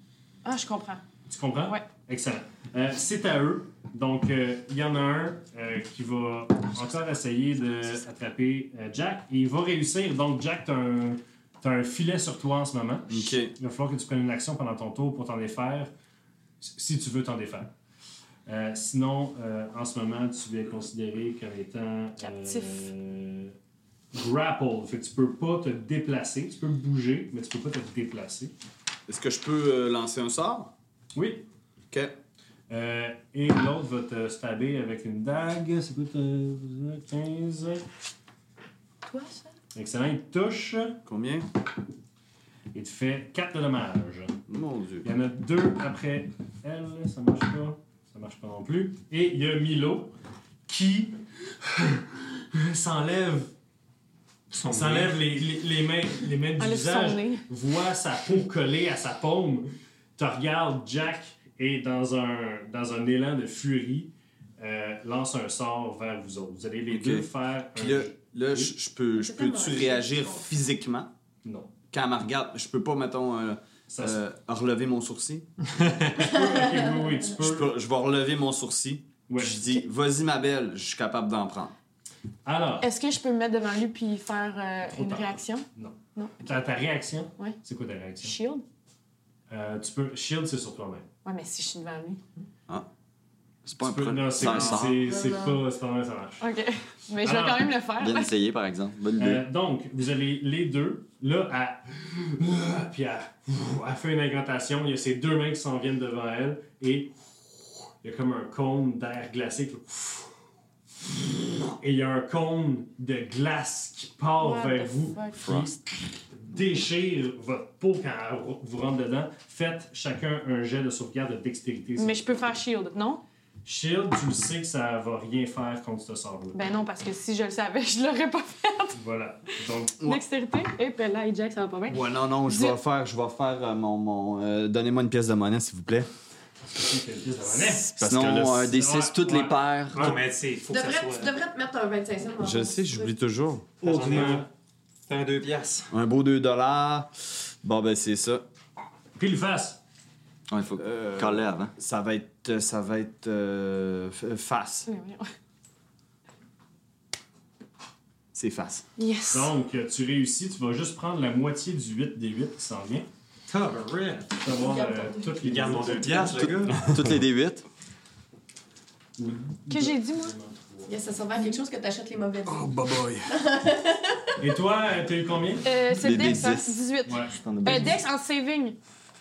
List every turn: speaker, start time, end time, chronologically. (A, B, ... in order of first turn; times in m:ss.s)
0:00.4-0:01.0 A
0:01.3-0:15.9 B
0:13.1-0:13.5 C
0:16.6-0:17.7 B
0:18.5-0:23.5 B
0:22.2-0:22.9 A
0:24.1-0:28.5 B
0:29.1-0:30.7 C
0:31.2-0:31.5 B
0:32.7-0:37.8 B
0:39.1-0:39.5 A
0:39.8-0:41.0 B
0:41.1-0:41.5 C
0:42.7-0:44.4 B
0:44.5-0:45.1 C
0:45.0-0:50.2 B
0:50.7-0:53.5 B
0:54.5-0:55.2 D
0:54.7-1:08.7 B
0:56.6-0:57.4 A
1:06.9-1:11.1 C
1:09.1-1:10.6 E
1:11.4-1:11.7 B
1:11.9-1:15.5 C
1:13.9-1:14.2 B
1:15.8-1:16.1 D
1:16.1-1:17.7 B
1:16.4-1:16.8 E
1:17.4-1:21.7 C
1:19.3-1:19.8 B
1:22.4-1:22.9 B
1:22.8-1:26.5 A
1:24.9-1:28.4 B
1:28.2-1:28.6 A
1:29.5-1:31.1 B
1:31.2-1:32.2 A
1:33.6-1:35.1 F
1:33.8-1:36.5 B
1:34.4-1:34.8 D
1:35.0-1:35.6 E
1:36.4-1:38.3 A
1:37.2-1:37.7 B
1:38.0-1:39.4 F
1:39.2-1:50.3 B
1:51.5-2:02.2 B
1:54.4-1:55.5 A
1:55.3-1:55.7 F
2:02.0-2:03.2 A
2:03.6-2:06.6 B
2:06.5-2:09.0 A
2:09.0-2:10.0 B
2:10.0-2:12.8 A
2:11.9-2:16.1 C
2:16.7-2:20.2 B
2:17.7-2:20.2 F
2:18.0-2:18.6 C
2:20.0-2:21.3 D
2:20.7-2:23.1 E
2:22.4-2:23.9 C
2:23.8-2:24.5 D
2:23.8-2:24.5 B
2:25.1-2:25.9 D
2:25.9-2:27.1 C
2:27.6-2:28.4 C
2:29.2-2:29.8 B
2:30.5-2:31.7 F
2:30.8-2:34.9 C
2:34.9-2:35.3 A
2:38.3-2:38.9 C
2:39.0-2:39.5 A
2:39.3-2:43.1 B
2:43.5-2:44.4 D
2:44.4-2:46.5 B
2:44.4-2:46.3 E
2:45.4-2:47.0 D
2:46.4-2:47.6 F
2:49.2-2:51.0 B
2:49.7-2:50.3 A
2:50.9-2:52.7 E
2:52.5-2:53.3 C
2:53.3-2:54.5 E
2:54.4-2:55.8 B
2:55.6-2:58.8 A
2:56.0-2:58.0 F
2:57.0-2:57.4 B